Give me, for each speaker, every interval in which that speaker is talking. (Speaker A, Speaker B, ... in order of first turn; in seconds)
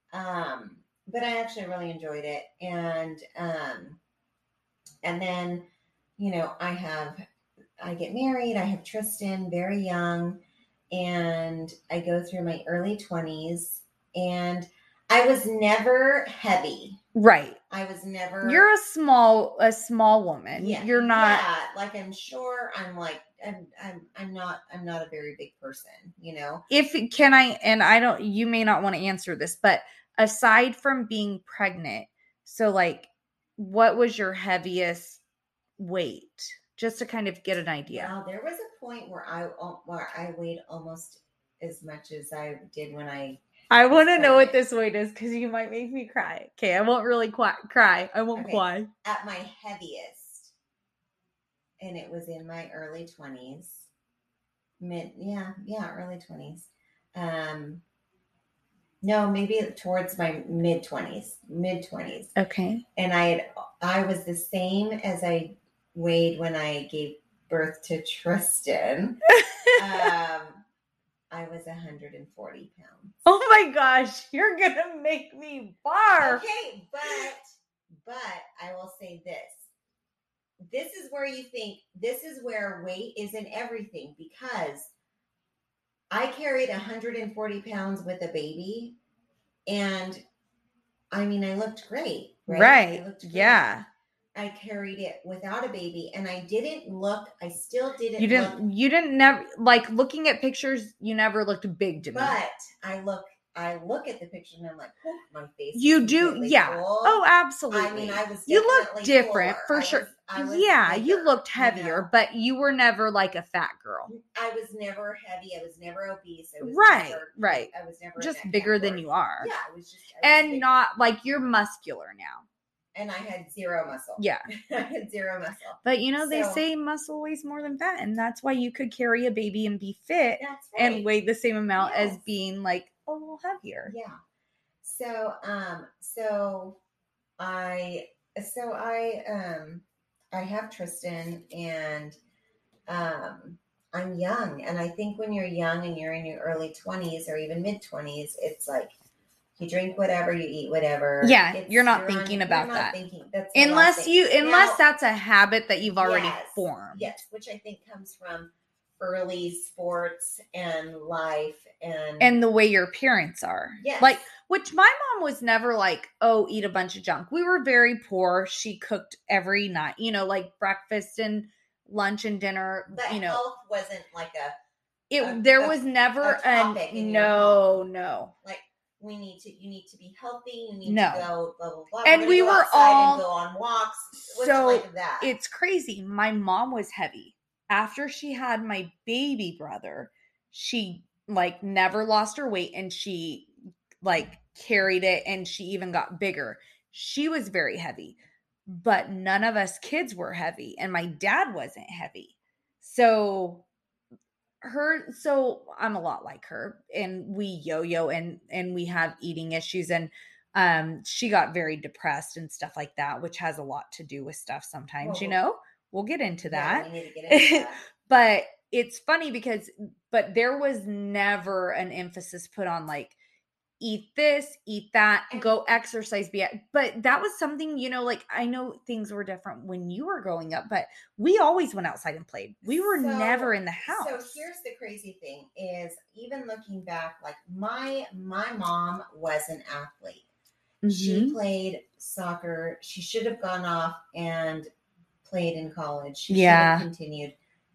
Speaker A: 0.1-4.0, 5.0-5.7, 6.2-7.2, 7.8-17.0, 17.7-18.7, 20.5-26.7, 37.9-44.6, 48.4-50.5, 51.8-53.9, 54.8-57.8, 59.0-62.4, 63.0-69.2, 69.8-70.6, 71.3-73.2, 76.2-77.4, 78.0-79.7, 80.7-84.9, 86.1-89.0, 89.7-90.2, 91.1-93.7, 94.3-98.6, 102.0-112.1, 114.1-120.9, 123.0-126.6, 130.4-131.1, 131.8-132.2, 133.9-134.2, 134.8-136.8, 137.4-142.2, 142.9-148.9, 149.6-154.8, 156.0-162.4, 163.8-164.3, 172.9-174.6, 175.2-177.8, 178.4-185.3, 215.0-215.4, 216.5-217.8, 225.3-225.8, 232.7-240.3, 240.9-244.7, 245.2-247.4
Speaker B: 17.1-17.6, 18.4-21.5, 26.7-35.2, 35.8-38.1, 43.7-48.9, 62.4-62.8, 69.3-70.1, 73.3-76.4, 92.5-93.8, 98.2-102.4, 105.7-114.1, 116.6-119.5, 120.2-122.5, 124.2-124.5, 125.8-133.9, 151.2-153.0, 153.5-157.2, 162.2-173.4, 175.1-178.3, 180.8-181.3, 182.0-183.2, 184.1-193.5, 194.0-198.2, 198.7-203.7, 204.6-223.2, 223.8-234.5, 240.8-241.4, 246.3-246.9